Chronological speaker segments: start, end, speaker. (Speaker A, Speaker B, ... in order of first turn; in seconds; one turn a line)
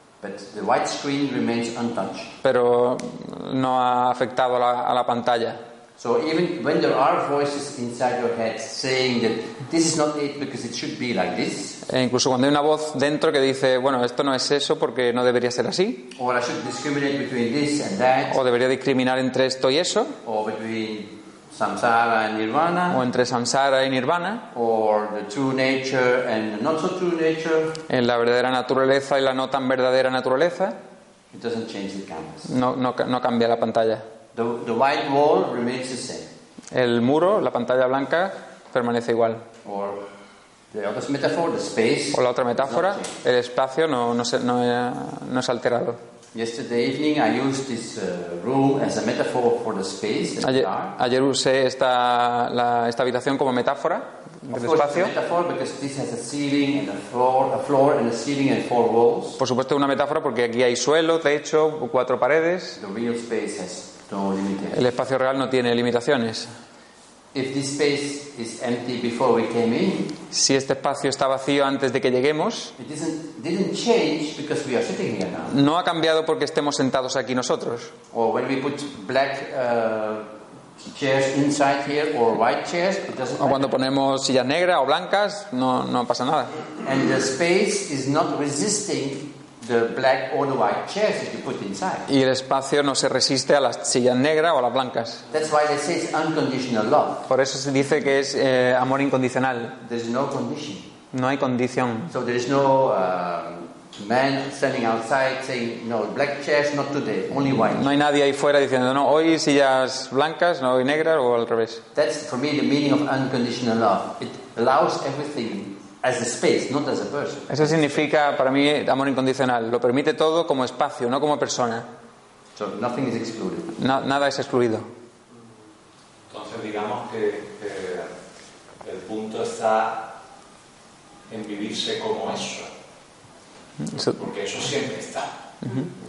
Speaker A: 0.2-2.4
Speaker B: 2.4-5.6
Speaker A: 6.0-11.8
Speaker B: 11.8-16.1
Speaker A: 16.1-18.4
Speaker B: 18.3-20.2
Speaker A: 20.2-23.0
Speaker B: 22.9-24.5
Speaker A: 24.5-27.8
Speaker B: 27.9-30.8
Speaker A: 31.3-32.5
Speaker B: 32.5-34.1
Speaker A: 34.3-36.3
Speaker B: 36.7-39.5
Speaker A: 39.6-40.0
Speaker A: 40.7-43.2
Speaker B: 42.1-46.0
Speaker A: 46.3-50.9
Speaker B: 50.4-55.1
Speaker A: 54.5-59.4
Speaker B: 59.4-62.8
Speaker A: 62.8-64.8
Speaker B: 64.7-66.5
Speaker A: 67.3-70.2
Speaker B: 70.3-72.7
Speaker A: 72.8-75.6
Speaker B: 75.5-77.9
Speaker A: 78.1-80.3
Speaker A: 80.8-83.8
Speaker B: 83.4-86.5
Speaker A: 86.8-92.1
Speaker B: 92.1-95.3
Speaker A: 95.3-97.3
Speaker B: 97.3-99.8
Speaker A: 99.8-100.9
Speaker B: 101.1-102.1
Speaker A: 102.1-107.9
Speaker B: 107.6-111.8
Speaker A: 111.9-117.8
Speaker B: 117.5-121.9
Speaker A: 122.6-123.7
Speaker B: 123.8-124.9
Speaker C: 126.3-128.1
Speaker C: 128.8-130.1
Speaker C: 131.3-132.7
Speaker B: 133.9-134.2
Speaker C: 133.9-135.3
Speaker B: 135.6-135.9